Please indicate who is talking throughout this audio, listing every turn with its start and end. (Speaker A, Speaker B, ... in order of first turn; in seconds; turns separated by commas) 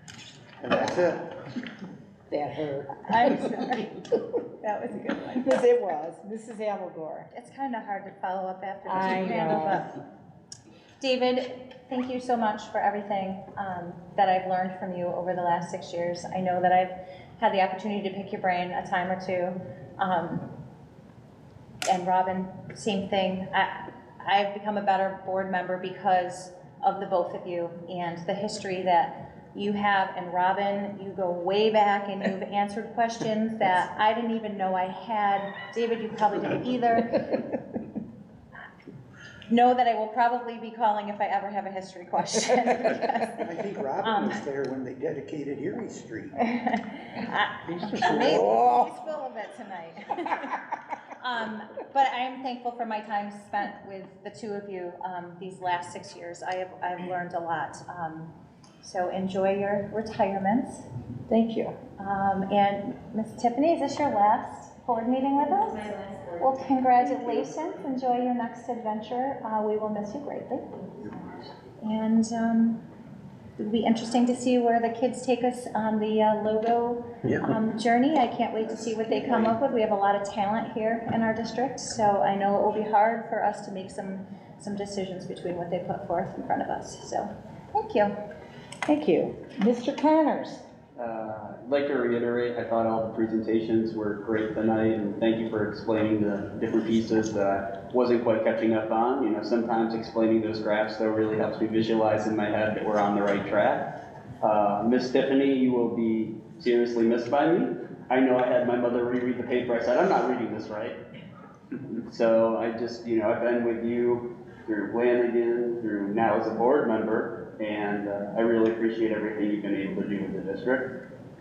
Speaker A: 0.6-1.3, Speaker B: 2.3-3.3, Speaker C: 3.1-4.1, Speaker C: 4.6-5.6, Speaker B: 5.4-7.3, Speaker C: 7.3-9.9, Speaker B: 8.8-9.8, Speaker C: 11.0-20.5, Speaker C: 21.9-37.5, Speaker C: 39.5-43.5, Speaker A: 43.4-46.4, Speaker C: 44.0-44.4, Speaker C: 46.4-50.6, Speaker C: 51.2-60.8, Speaker B: 61.3-61.8, Speaker C: 62.0-72.8, Speaker C: 73.6-88.1, Speaker A: 78.6-79.3, Speaker B: 88.8-90.6, Speaker D: 91.0-111.0, Speaker D: 111.9-121.0